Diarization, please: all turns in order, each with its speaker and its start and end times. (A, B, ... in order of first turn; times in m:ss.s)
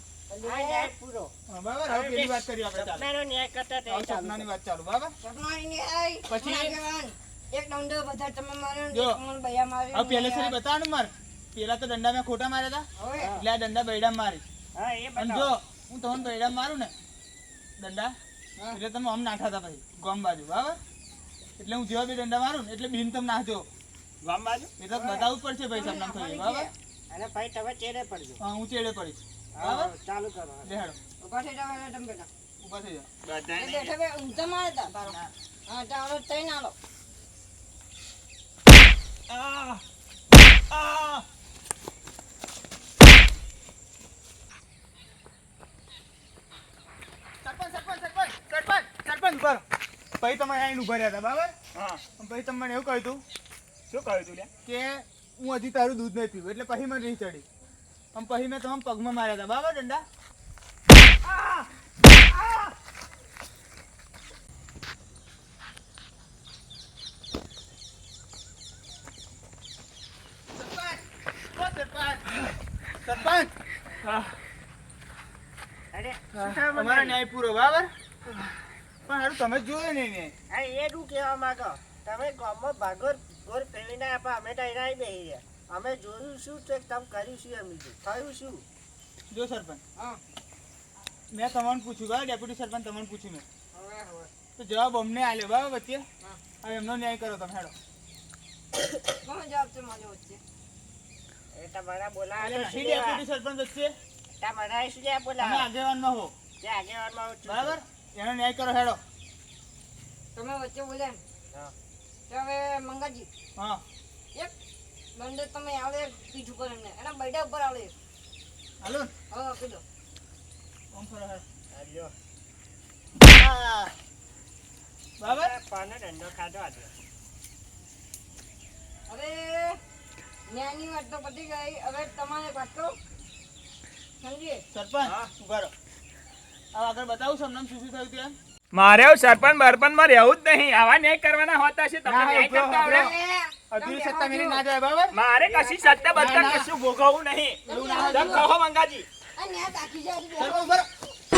0:00.3-0:00.9 A
0:00.4-0:01.3 B
0:01.5-0:03.1 C
0:01.9-0:04.5 B
0:03.9-0:05.1 C
0:05.2-0:10.6 A
0:06.3-0:06.8 C
0:08.9-0:09.2 C
0:09.9-0:14.4 C
0:13.0-0:13.3 A
0:13.2-0:13.4 B
0:14.8-0:15.5 B
0:15.2-0:16.9 C
0:17.8-0:18.1 C
0:18.7-0:20.8 C
0:21.6-0:23.7 C
0:24.2-0:24.7 D
0:24.8-0:26.7 C
0:25.0-0:25.3 B
0:25.7-0:26.7 A
0:27.1-0:28.4 B
0:28.4-0:29.9 C
0:29.6-0:30.7 B
0:30.6-0:31.0 C
0:31.2-0:32.3 A
0:32.6-0:33.1 C
0:33.2-0:33.9 D
0:33.6-0:35.1 A
0:34.9-0:35.3 C
0:35.7-0:36.8 A
0:39.3-0:39.8 D
0:40.7-0:41.3 D
0:47.4-0:49.6 C
0:50.2-0:51.5 C
0:51.7-0:52.0 D
0:52.2-0:53.2 C
0:53.9-0:54.5 D
0:54.7-0:57.4 C
0:58.1-1:00.0 C
1:10.5-1:12.4 C
1:13.0-1:13.5 C
1:15.9-1:17.2 B
1:16.4-1:17.9 C
1:19.1-1:20.3 C
1:20.5-1:28.6 B
1:29.3-1:29.8 C
1:31.3-1:33.4 C
1:33.7-1:34.3 A
1:34.6-1:36.0 C
1:36.6-1:37.7 C
1:39.1-1:40.4 A
1:41.5-1:43.2 B
1:42.4-1:43.9 C
1:44.4-1:45.7 B
1:45.4-1:46.3 C
1:46.6-1:47.8 B
1:47.4-1:49.0 C
1:50.4-1:51.2 A
1:52.3-1:53.3 A
1:55.2-1:57.9 A
1:58.8-1:59.1 C
1:59.3-1:59.8 A
2:00.9-2:01.4 C
2:01.7-2:02.1 B
2:03.2-2:03.9 C
2:05.2-2:05.5 C
2:05.2-2:06.9 B
2:09.1-2:09.8 A
2:10.5-2:13.0 A
2:14.2-2:14.6 A
2:14.7-2:15.7 C
2:15.0-2:15.3 D
2:16.7-2:18.4 C
2:18.7-2:23.1 D
2:22.1-2:23.1 C
2:22.5-2:24.6 A
2:23.7-2:25.1 C
2:25.1-2:29.1 D
2:25.4-2:26.6 A
2:26.2-2:26.7 C
2:27.7-2:28.5 A
2:27.7-2:28.5 C
2:29.4-2:30.7 A
2:30.4-2:30.8 C